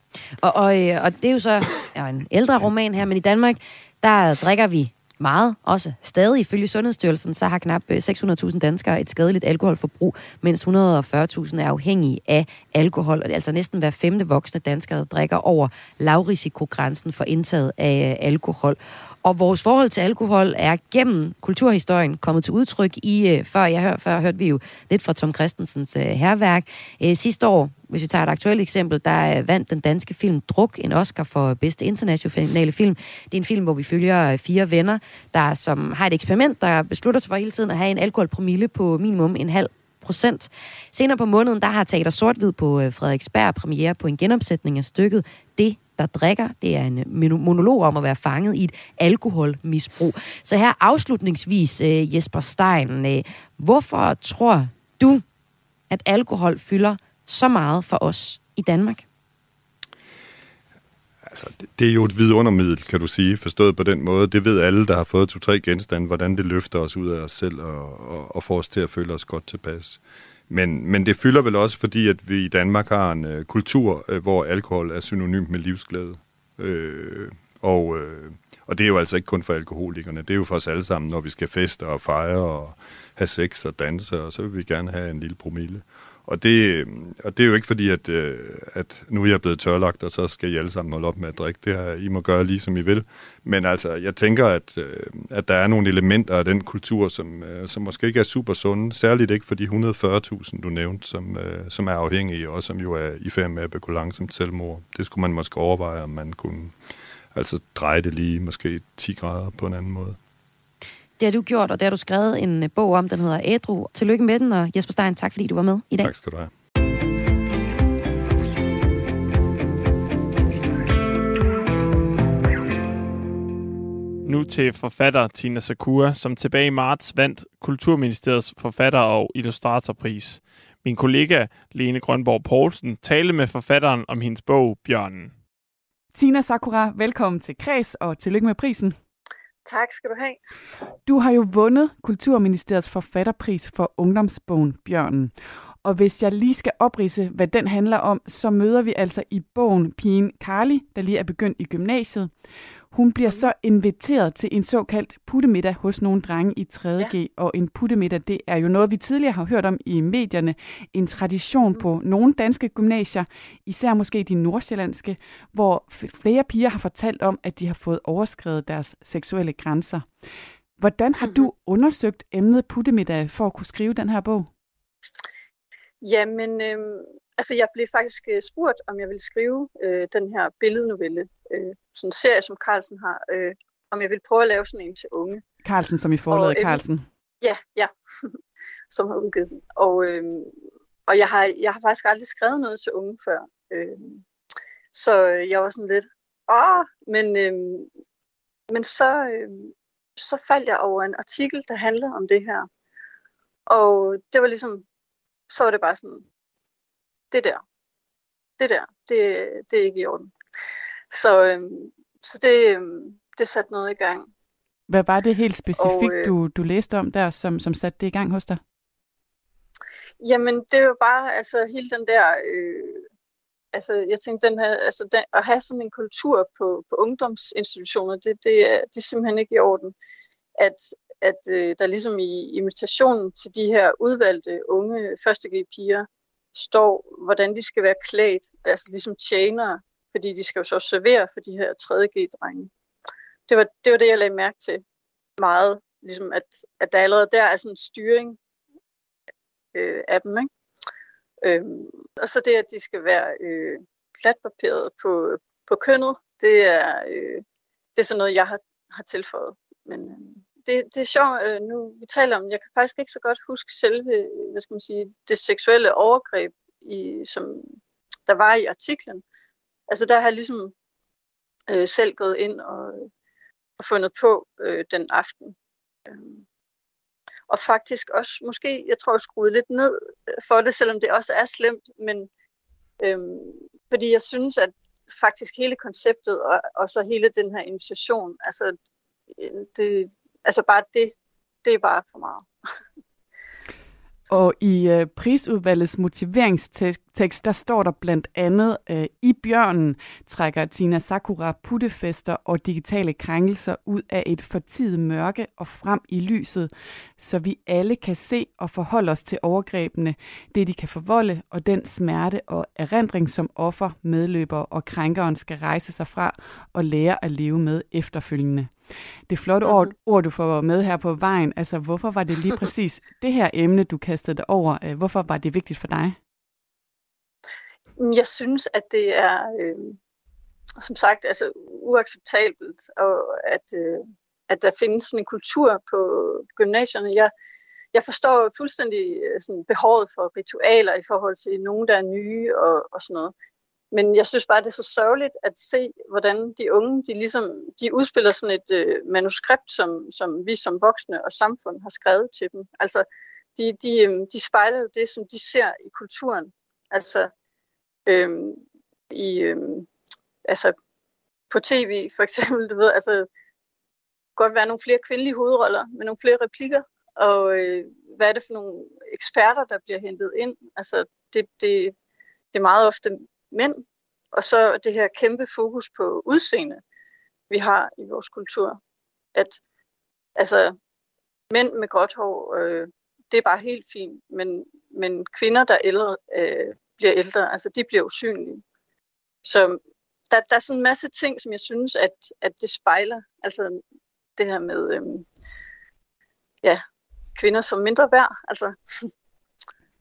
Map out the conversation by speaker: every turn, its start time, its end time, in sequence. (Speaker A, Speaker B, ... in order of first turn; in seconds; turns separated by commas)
Speaker A: 0.4-55.2, Speaker A: 55.9-59.0, Speaker B: 61.2-106.7, Speaker B: 107.3-110.2, Speaker A: 111.2-116.1, Speaker B: 116.0-116.5, Speaker C: 124.2-135.3, Speaker D: 136.1-138.9, Speaker E: 139.6-140.4, Speaker D: 141.1-152.3, Speaker D: 152.9-170.1, Speaker D: 170.8-174.5, Speaker E: 176.0-185.4, Speaker D: 185.6-187.0, Speaker E: 186.3-186.8, Speaker E: 187.4-188.3, Speaker E: 188.9-190.5, Speaker E: 191.1-194.2, Speaker E: 194.9-197.9, Speaker E: 198.7-202.7, Speaker E: 203.7-204.8, Speaker E: 205.5-206.2, Speaker E: 207.3-207.6, Speaker E: 208.6-210.3, Speaker E: 211.1-214.3, Speaker D: 214.9-218.6, Speaker E: 215.7-216.3, Speaker E: 220.2-223.0, Speaker E: 223.7-229.9, Speaker E: 230.6-242.7, Speaker E: 243.5-244.8, Speaker E: 245.4-248.4, Speaker E: 249.7-250.5, Speaker E: 251.4-257.4, Speaker E: 257.9-267.7, Speaker E: 268.3-269.2, Speaker E: 269.9-270.7, Speaker E: 271.7-273.1, Speaker E: 273.8-275.5, Speaker E: 276.1-276.4, Speaker E: 277.5-282.3, Speaker E: 283.0-288.7, Speaker E: 289.4-292.5, Speaker D: 294.3-326.1, Speaker E: 319.6-319.9, Speaker E: 328.0-330.0, Speaker E: 330.8-337.3, Speaker E: 337.9-343.3, Speaker E: 343.9-357.3, Speaker E: 358.1-359.9, Speaker E: 360.4-360.7, Speaker E: 361.5-363.3, Speaker E: 364.4-371.9, Speaker E: 372.5-376.8, Speaker E: 377.5-378.8, Speaker E: 379.3-379.6, Speaker E: 380.4-380.7, Speaker E: 381.5-388.6, Speaker E: 389.4-389.8, Speaker E: 390.3-393.8, Speaker E: 394.4-395.2, Speaker E: 397.4-399.1